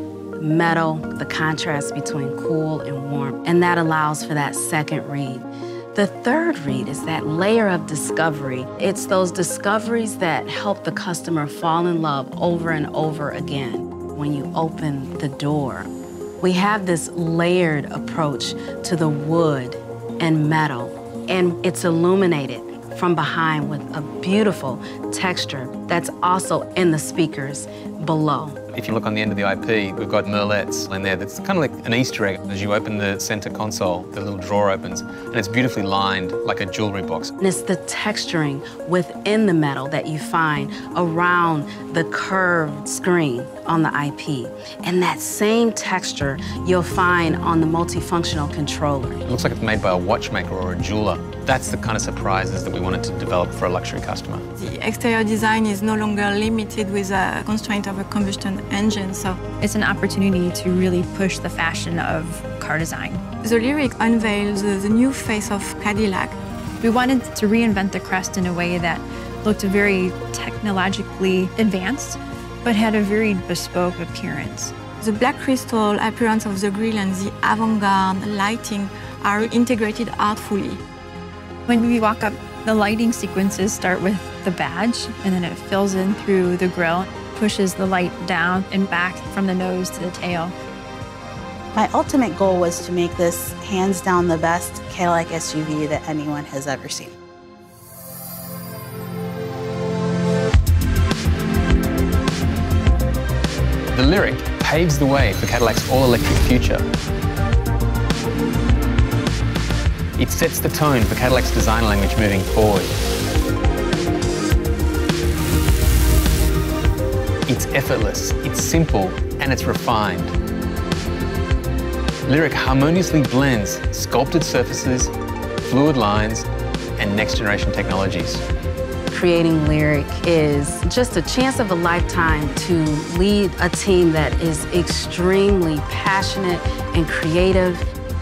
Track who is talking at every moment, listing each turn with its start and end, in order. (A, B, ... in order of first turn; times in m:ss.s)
0:00.4-0:15.9 A
0:16.4-0:28.6 A
0:28.7-0:37.3 B
0:37.4-0:49.2 A
0:49.2-0:54.4 B
0:54.6-0:59.4 C
0:59.6-1:03.2 D
1:03.4-1:06.4 C
1:06.8-1:14.7 D
1:15.0-1:20.8 C
1:21.7-1:30.5 D
1:31.7-1:37.1 E
1:43.9-1:46.8 B
1:50.2-1:53.0 B
1:57.5-2:00.3 B
2:02.2-2:08.4 B
2:09.1-2:17.8 A